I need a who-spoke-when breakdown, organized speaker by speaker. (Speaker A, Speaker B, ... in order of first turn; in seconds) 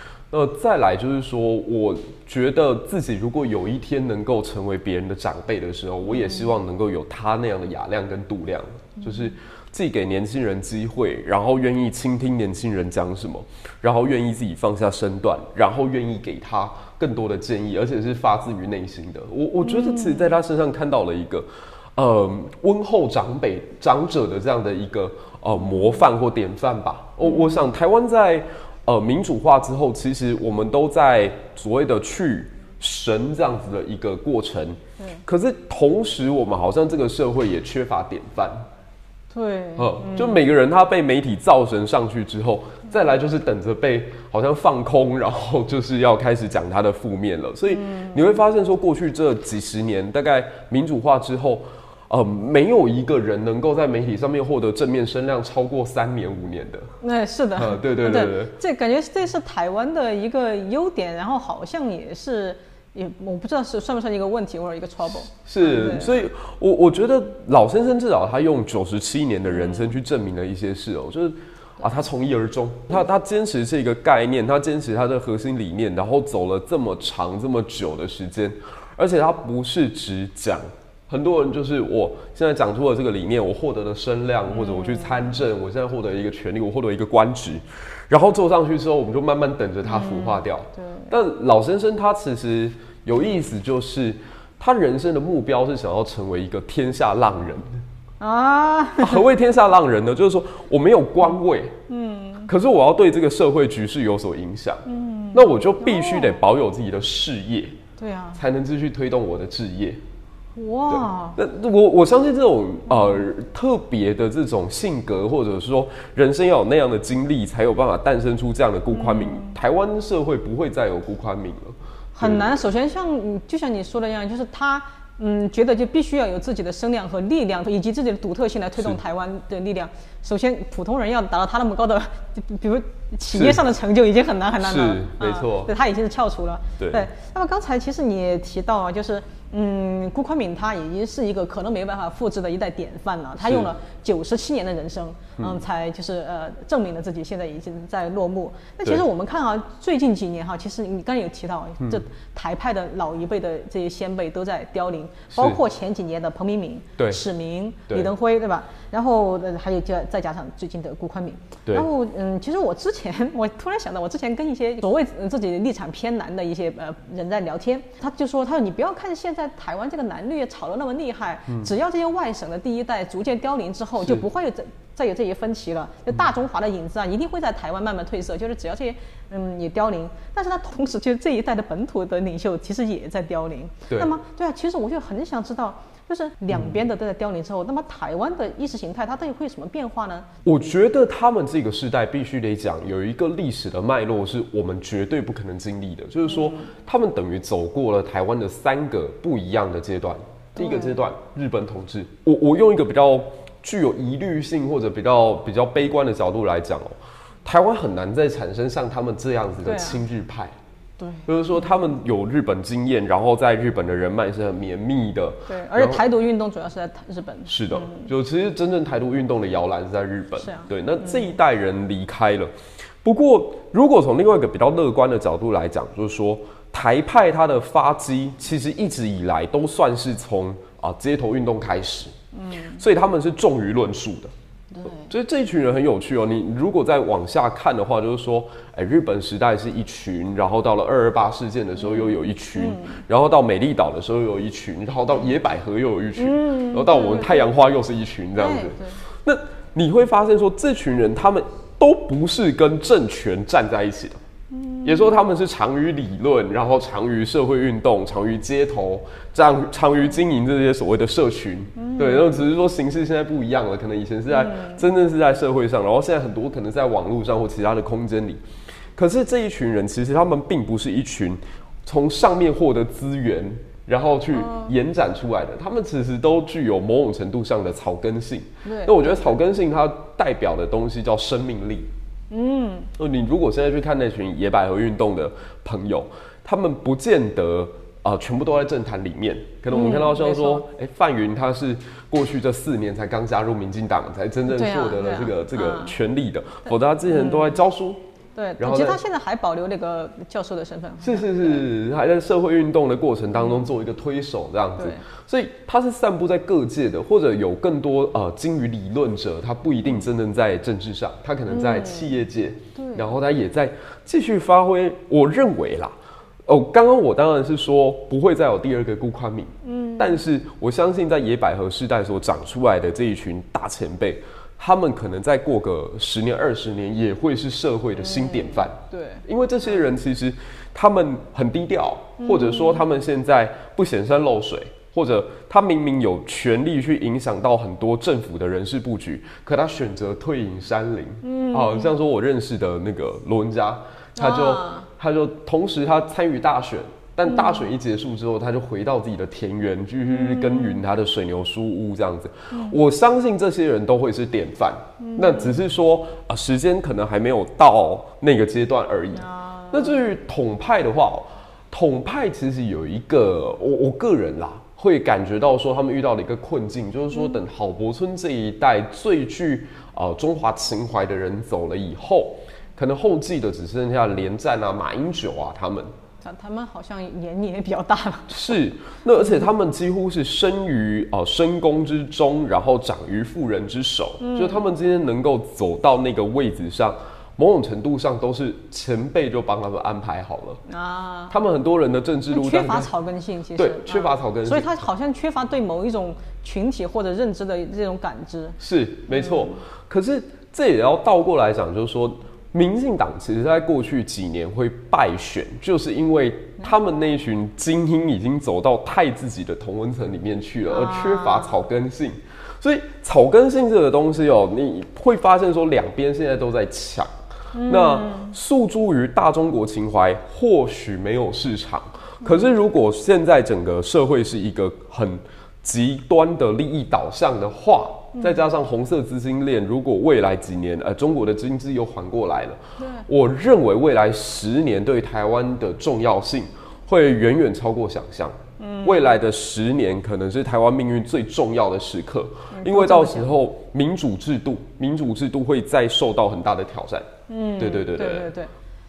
Speaker A: 0.3-38.6, 39.8-56.9, 57.5-58.5, 65.4-97.7, 99.0-101.8, 102.5-107.8, 108.3-110.0, 110.9-122.5, 133.3-133.6, 134.6-135.7, 136.8-137.1, 143.4-143.7, 155.3-155.6, 157.0-157.2, 186.5-186.8, 190.4-210.5, 211.2-216.0, 217.5-222.5, 223.0-232.1, 232.8-234.3, 234.9-254.2, 254.8-268.4, 268.9-281.9, 283.0-298.0, 298.6-299.0, 301.0-315.9, 316.4-375.9, 378.3-390.6, 391.3-392.9, 393.6-394.7, 398.6-417.1, 417.6-448.3
Speaker B: 6.1-6.5, 9.0-9.3, 19.6-20.3, 27.2-27.5, 39.3-40.4, 47.7-48.4, 57.0-66.2, 69.5-69.9, 84.5-85.3, 89.8-91.1, 98.2-99.2, 101.9-102.5, 104.8-106.4, 108.0-108.4, 110.5-111.4, 118.9-119.5, 122.2-190.3, 196.3-196.6, 200.6-201.0, 209.6-210.0, 211.0-211.2, 215.5-218.1, 220.4-221.3, 232.3-232.8, 234.7-235.1, 241.8-243.0, 246.2-247.5, 248.4-249.0, 254.5-255.1, 261.8-262.4, 264.3-264.8, 274.3-274.7, 278.6-279.3, 282.3-282.9, 289.7-290.6, 294.5-296.0, 297.1-297.6, 298.4-301.6, 303.4-303.7, 304.8-305.0, 311.5-312.1, 312.7-313.1, 319.6-320.2, 328.2-329.2, 332.2-332.8, 341.2-341.9, 344.2-344.9, 347.3-347.7, 350.1-350.8, 352.5-352.8, 355.0-355.6, 359.1-360.0, 376.2-378.5, 384.2-384.6, 390.7-391.3, 392.3-398.6, 399.1-399.5, 410.7-411.6, 417.5-418.3, 432.8-433.1, 438.6-439.1, 442.5-443.3, 447.3-448.5